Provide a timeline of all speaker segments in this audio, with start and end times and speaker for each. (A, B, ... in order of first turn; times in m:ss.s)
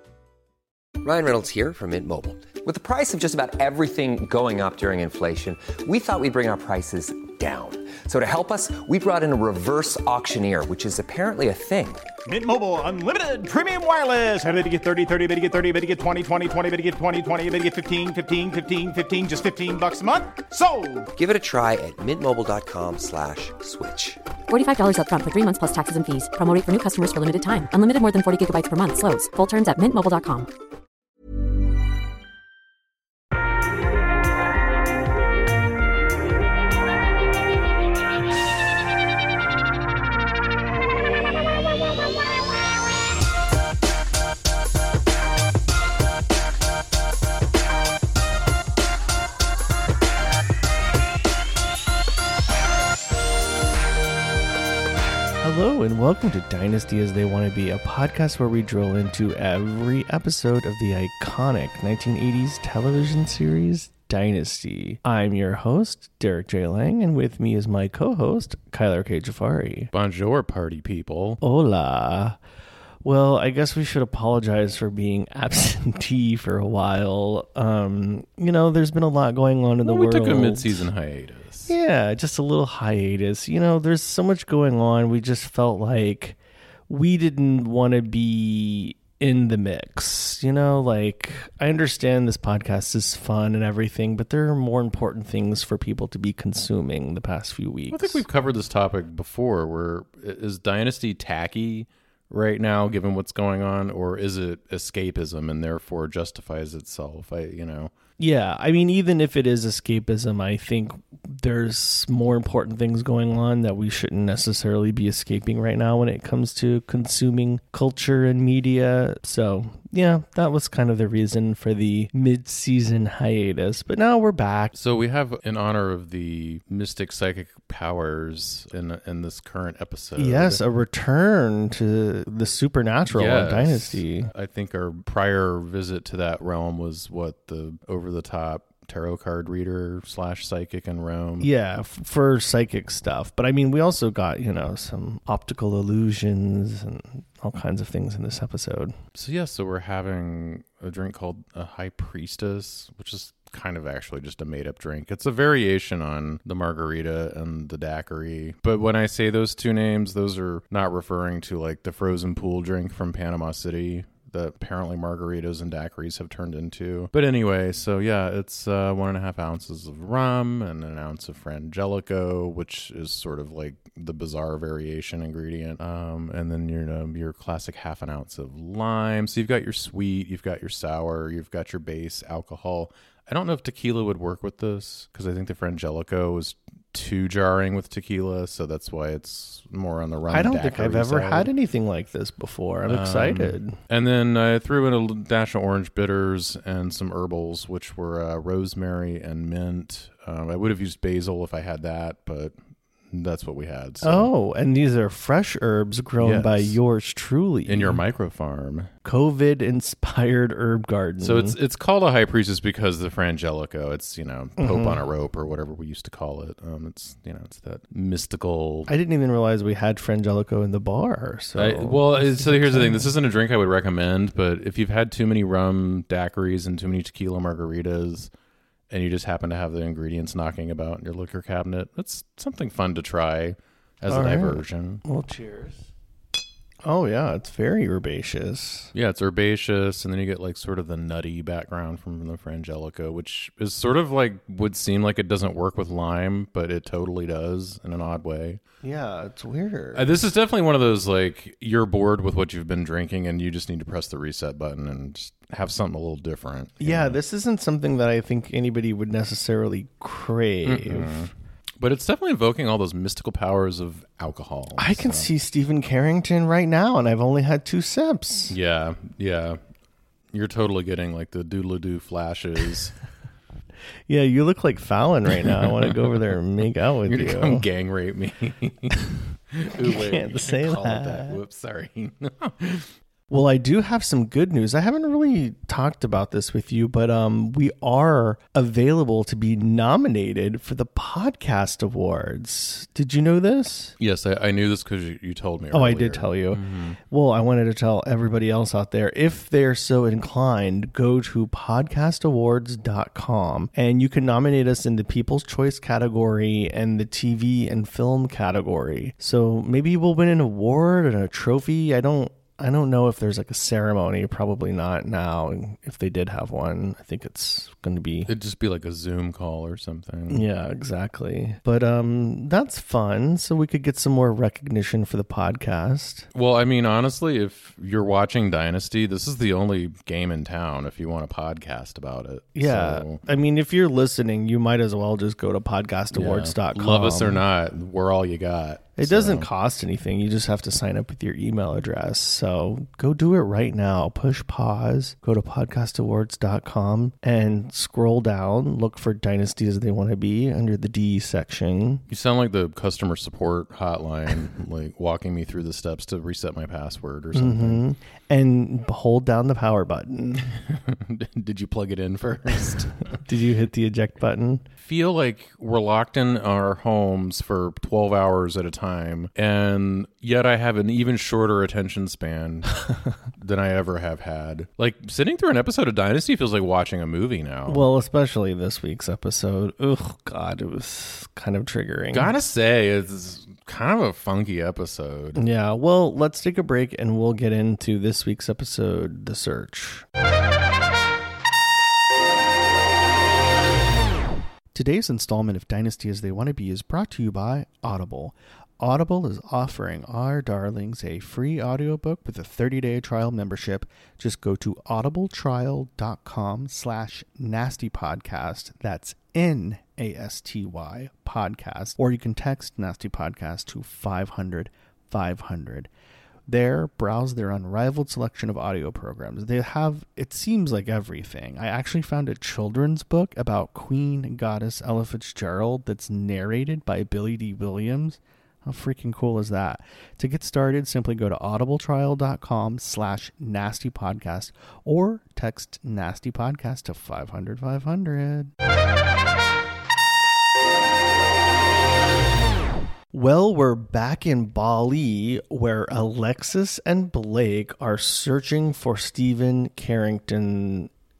0:01.0-0:12.0 A
0:12.2-0:21.1 B
0:21.2-0:24.2 A
0:24.5-0:30.5 C
0:55.4-1:09.9 D
1:09.9-1:11.4 E
1:11.4-1:12.4 D
1:13.0-1:20.9 D
1:19.8-1:21.7 E
1:21.7-1:26.4 D
1:26.9-1:38.2 D
1:37.9-1:47.9 E
1:48.2-2:04.7 D
2:04.7-2:10.6 E
2:10.2-2:14.3 D
2:13.1-2:21.5 E
2:21.4-2:28.9 D
2:29.1-3:11.5 E
3:10.3-3:13.8 D
3:12.9-3:22.5 E
3:23.1-3:24.3 E
3:24.0-3:28.0 D
3:26.2-3:26.8 E
3:27.6-3:28.9 E
3:29.0-3:31.6 D
3:31.2-3:38.9 E
3:34.6-3:35.0 D
3:38.9-3:43.1 D
3:41.6-3:48.3 E
3:48.9-3:55.0 E
3:54.1-3:55.9 D
3:56.8-3:58.9 D
3:58.9-4:08.6 E
4:08.8-4:10.1 D
4:09.9-4:17.2 E
4:16.8-4:21.3 D
4:20.6-4:25.3 E
4:24.8-4:28.6 D
4:28.5-4:29.6 E
4:30.3-4:32.9 E
4:34.1-4:37.6 D
4:35.4-4:36.2 E
4:37.0-4:39.0 E
4:39.5-4:42.9 E
4:39.8-4:41.4 D
4:43.3-4:53.9 D
4:54.0-4:57.0 E
4:55.7-5:18.3 D
5:18.3-5:20.4 E
5:20.3-5:26.3 D
5:26.3-5:33.2 E
5:32.5-5:37.4 D
5:36.1-5:39.5 E
5:39.0-5:52.0 D
5:52.1-5:57.8 E
5:57.3-6:00.5 D
6:00.6-6:03.2 E
6:03.2-6:04.6 D
6:04.8-6:12.8 E
6:13.4-6:17.8 E
6:17.7-6:22.3 D
6:22.1-6:25.4 E
6:25.4-6:30.0 D
6:34.7-6:55.9 D
6:56.5-7:18.5 D
7:23.1-7:30.9 D